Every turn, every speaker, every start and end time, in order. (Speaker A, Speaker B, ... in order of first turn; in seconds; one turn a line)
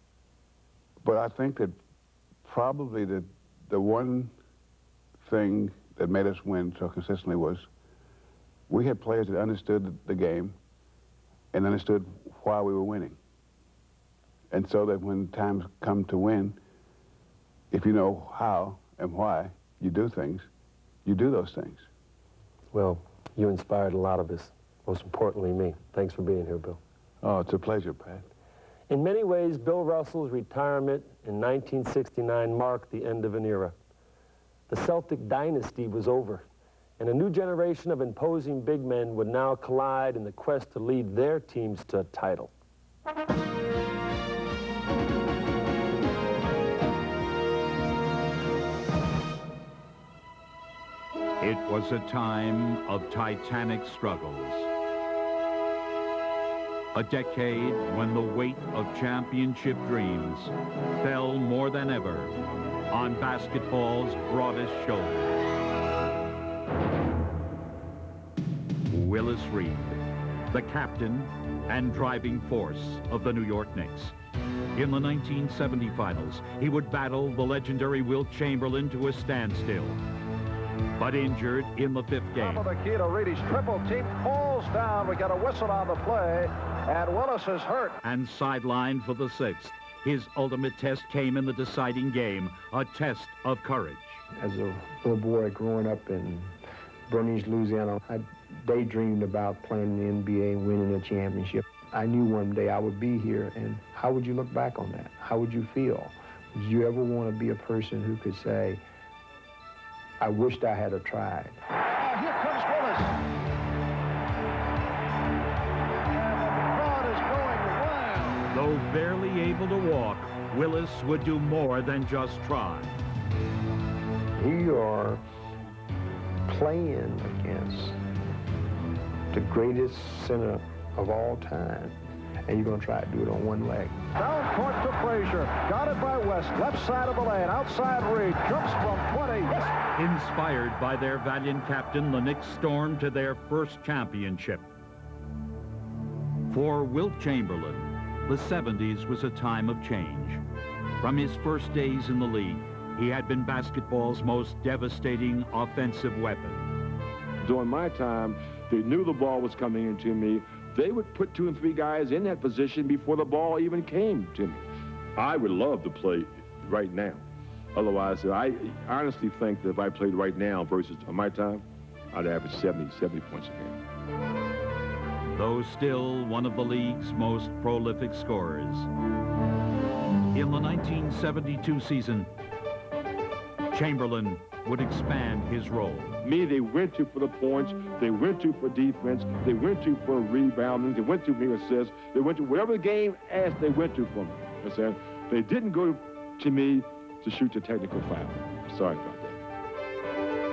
Speaker A: 1.0-1.8
Speaker A: 2.4-4.3
Speaker A: 5.2-7.7
Speaker A: 8.7-10.6
Speaker A: 11.5-13.2
Speaker A: 14.5-16.6
Speaker A: 17.7-20.5
Speaker A: 21.0-21.9
Speaker B: 22.7-26.8
Speaker A: 27.2-28.2
Speaker B: 28.9-33.7
Speaker B: 34.7-36.4
Speaker B: 37.0-42.5
Speaker C: 51.4-54.7
Speaker C: 56.9-62.4
Speaker C: 62.9-65.3
Speaker C: 68.9-69.9
Speaker C: 70.5-74.1
Speaker C: 74.7-80.0
Speaker C: 81.0-82.7
Speaker D: 82.4-88.0
Speaker C: 88.0-94.2
Speaker E: 94.3-96.5
Speaker E: 97.1-108.8
Speaker E: 110.2-111.6
Speaker D: 112.0-113.1
Speaker E: 116.7-117.1
Speaker C: 118.5-123.0
Speaker E: 124.4-125.2
Speaker E: 126.5-128.0
Speaker E: 129.3-134.0
Speaker D: 134.1-139.7
Speaker C: 139.9-144.7
Speaker C: 146.5-150.4
Speaker C: 151.0-156.7
Speaker F: 157.4-173.8
Speaker C: 175.3-178.9
Speaker C: 180.3-182.3
Speaker C: 183.7-186.1
Speaker F: 186.2-199.4